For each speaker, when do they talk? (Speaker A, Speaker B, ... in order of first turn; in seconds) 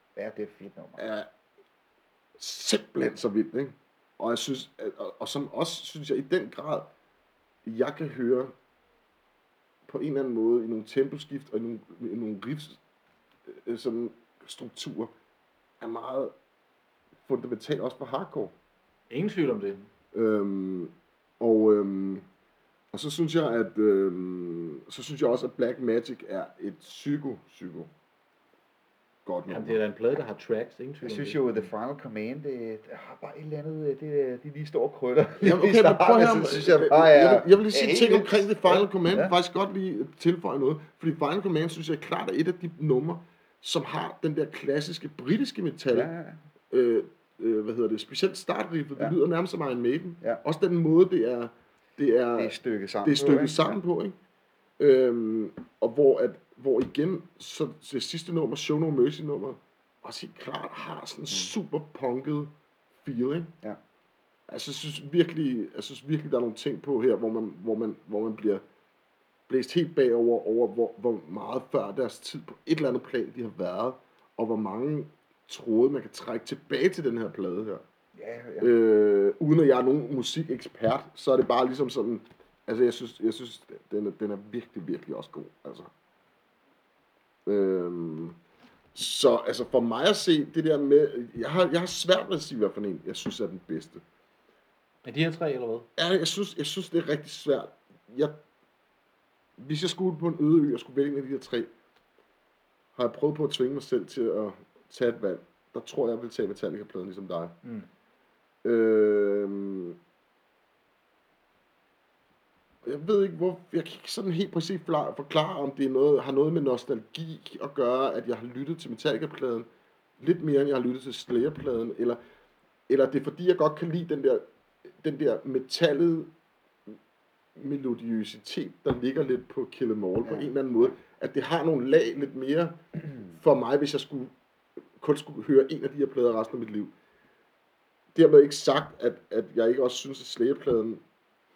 Speaker A: 0.1-1.1, 31.0-39.3, 45.9-46.4, 52.3-53.8, 78.2-78.7
Speaker B: 1.0-1.3, 2.4-6.9, 7.6-8.5, 9.9-12.8, 13.5-15.1, 15.8-16.3, 17.2-18.5, 20.1-22.2, 22.9-27.9, 29.2-29.8, 35.4-46.1, 46.7-54.1, 54.8-63.5, 64.5-68.6, 69.5-77.8, 78.6-85.9, 87.5-88.3, 88.9-94.0, 96.0-98.4, 99.6-101.7, 103.0-107.5, 108.6-110.0, 112.8-119.7, 120.2-122.2, 122.9-124.4, 125.0-126.3, 127.5-134.3, 135.0-136.9, 138.1-141.0
Speaker C: 19.1-19.8, 29.5-31.6, 95.0-95.9